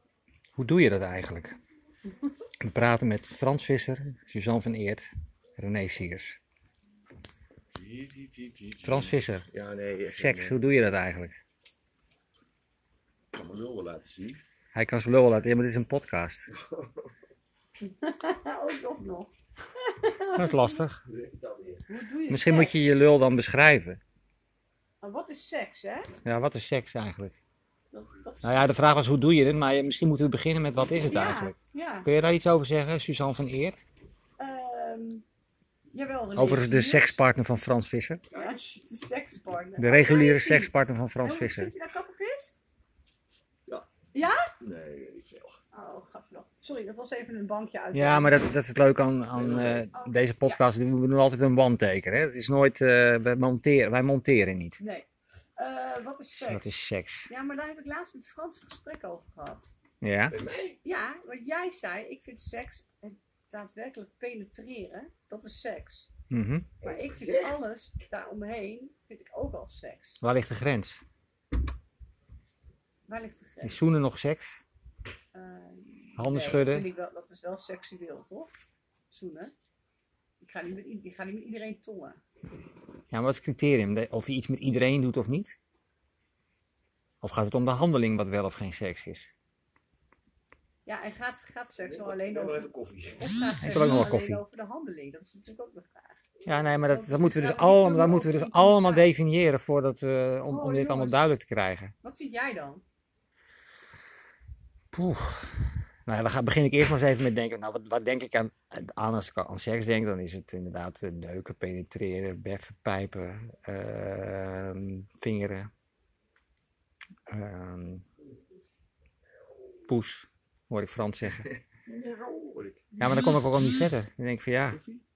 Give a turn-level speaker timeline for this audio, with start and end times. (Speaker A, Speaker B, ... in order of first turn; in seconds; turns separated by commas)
Speaker A: 0.6-1.6, Speaker A: 2.6-5.0, Speaker A: 5.6-6.4, Speaker B: 7.8-8.9, Speaker A: 8.8-9.5, Speaker B: 9.5-10.6, Speaker A: 10.1-11.4, Speaker B: 13.3-14.4, Speaker A: 14.7-16.5, Speaker B: 16.6-16.9, Speaker C: 17.8-20.8, Speaker A: 20.3-21.0, Speaker B: 21.1-21.8, Speaker C: 21.9-22.8, Speaker A: 22.3-24.0, Speaker C: 25.0-26.1, Speaker A: 26.2-27.4, Speaker C: 27.9-28.7, Speaker A: 28.4-31.6, Speaker C: 31.1-32.1, Speaker A: 32.1-33.8, Speaker C: 34.4-35.2, Speaker C: 35.9-37.2, Speaker A: 36.4-38.2, Speaker B: 38.3-38.6, Speaker C: 38.3-42.5, Speaker A: 39.8-41.7, Speaker C: 44.1-44.5, Speaker B: 44.6-45.6, Speaker C: 45.7-48.5, Speaker A: 47.9-54.8, Speaker B: 49.4-49.9, Speaker C: 49.9-50.6, Speaker C: 54.8-56.8, Speaker A: 56.4-57.3, Speaker C: 57.3-59.7, Speaker A: 60.0-60.4, Speaker B: 60.3-60.8, Speaker C: 60.8-66.1, Speaker A: 66.3-66.7, Speaker B: 66.8-67.6, Speaker C: 66.8-70.2, Speaker A: 70.2-71.0, Speaker C: 73.1-74.0, Speaker A: 73.6-74.6, Speaker C: 75.3-78.5, Speaker A: 76.2-76.9, Speaker C: 79.1-79.5, Speaker C: 80.4-82.2, Speaker A: 83.1-85.5, Speaker A: 87.2-89.3, Speaker C: 90.8-99.1, Speaker B: 91.8-93.3, Speaker A: 93.6-94.4, Speaker A: 96.5-101.9, Speaker C: 100.5-101.3, Speaker C: 102.0-102.8, Speaker A: 104.9-115.7, Speaker A: 117.3-118.0, Speaker A: 119.9-121.5, Speaker B: 121.9-122.9, Speaker A: 123.0-124.8, Speaker B: 124.7-125.0